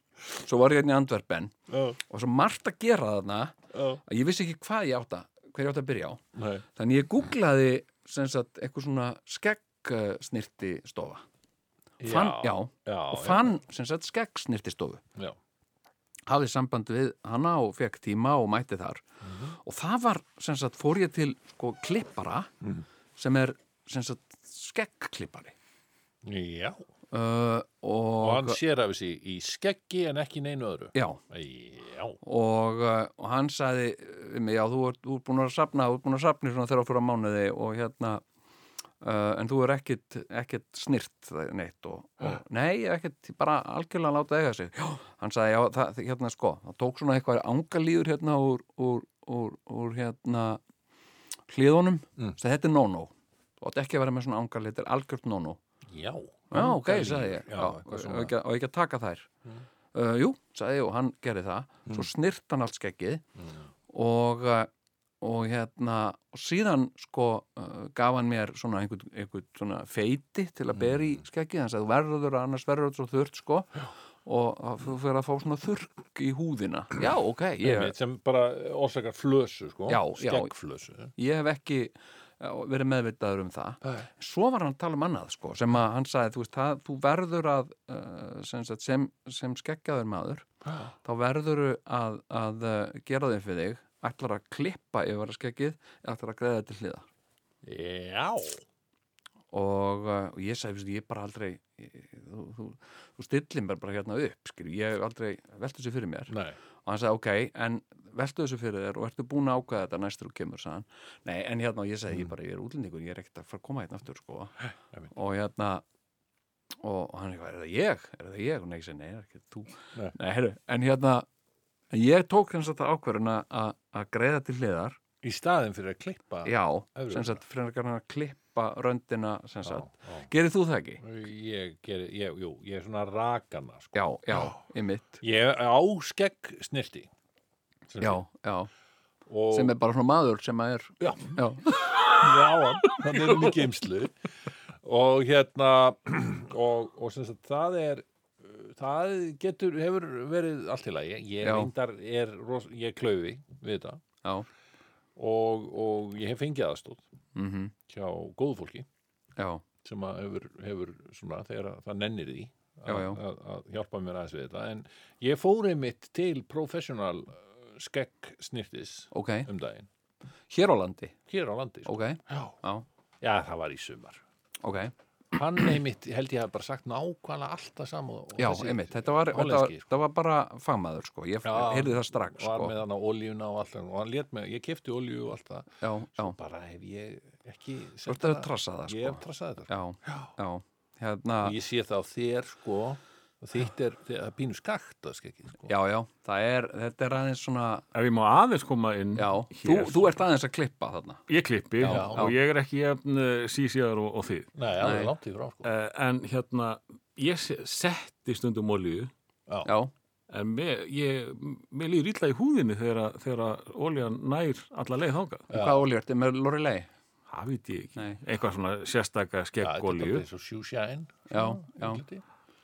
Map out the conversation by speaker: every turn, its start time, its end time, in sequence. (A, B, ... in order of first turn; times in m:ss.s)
0:00.3-0:01.5 A
0:01.7-0:02.0 B
0:02.1-0:06.2 A
0:03.7-0:04.0 B
0:06.3-0:06.6 B
0:06.7-0:11.2 A
0:12.0-0:13.5 B
0:12.0-0:15.0 A
0:16.3-0:19.0 A
0:19.2-0:19.6 B
0:19.6-0:22.5 A
0:23.2-0:25.5 A
0:26.2-0:26.8 B
0:27.1-0:28.6 A
0:28.2-0:32.2 B
0:30.9-0:31.2 A
0:32.2-0:38.2 A
0:39.0-0:50.6 A
0:51.5-0:55.6 A
0:55.9-0:58.3 B
0:56.5-0:59.3 A
0:59.9-1:03.2 A
1:03.4-1:03.6 B
1:03.9-1:04.7 A
1:05.2-1:17.9 A
1:10.7-1:11.2 B
1:17.6-1:21.1 B
1:19.9-1:20.5 A
1:21.1-1:30.5 A
1:30.6-1:30.9 B
1:31.0-1:37.1 A
1:37.6-1:38.6 B
1:39.5-1:46.3 A
1:46.3-1:46.6 B
1:46.8-1:54.6 A
1:55.1-1:55.8 A
1:56.8-2:01.2 A
2:01.9-2:05.0 A
2:05.2-2:07.4 B
2:06.4-2:11.0 A
2:09.6-2:10.3 B
2:11.0-2:14.6 B
2:13.9-2:15.2 A
2:15.2-2:17.1 B
2:17.9-2:18.2 B
2:18.0-2:18.7 A
2:19.3-2:19.7 B
2:19.5-2:22.0 A
2:21.0-2:21.4 B
2:22.0-2:24.1 B
2:24.8-2:34.0 B
2:31.4-2:31.7 A
2:35.2-2:37.0 B
2:37.3-2:37.7 A
2:37.9-2:38.9 B
2:39.4-2:39.6 A
2:39.8-2:49.9 B
2:42.8-2:43.2 A
2:49.1-2:49.5 A
2:50.5-2:51.2 A
2:51.3-2:52.6 B
2:51.8-2:52.8 A
2:53.2-2:54.2 B
2:54.6-2:54.9 A
2:55.3-2:59.9 B
2:58.4-3:02.7 A
3:01.4-3:10.3 B
3:05.8-3:06.4 A
3:08.0-3:11.5 A
3:11.4-3:15.7 B
3:15.7-3:17.8 A
3:17.9-3:20.1 C
3:19.2-3:21.2 A
3:21.3-3:24.5 C
3:21.8-3:22.3 A
3:21.8-3:22.3 B
3:24.5-3:25.7 B
3:24.8-3:25.1 A
3:25.6-3:29.1 C
3:29.6-3:29.9 A
3:30.3-3:35.5 C
3:35.5-3:35.8 B
3:35.5-3:36.9 A
3:37.3-3:40.2 C
3:39.6-3:42.2 B
3:41.3-3:42.0 A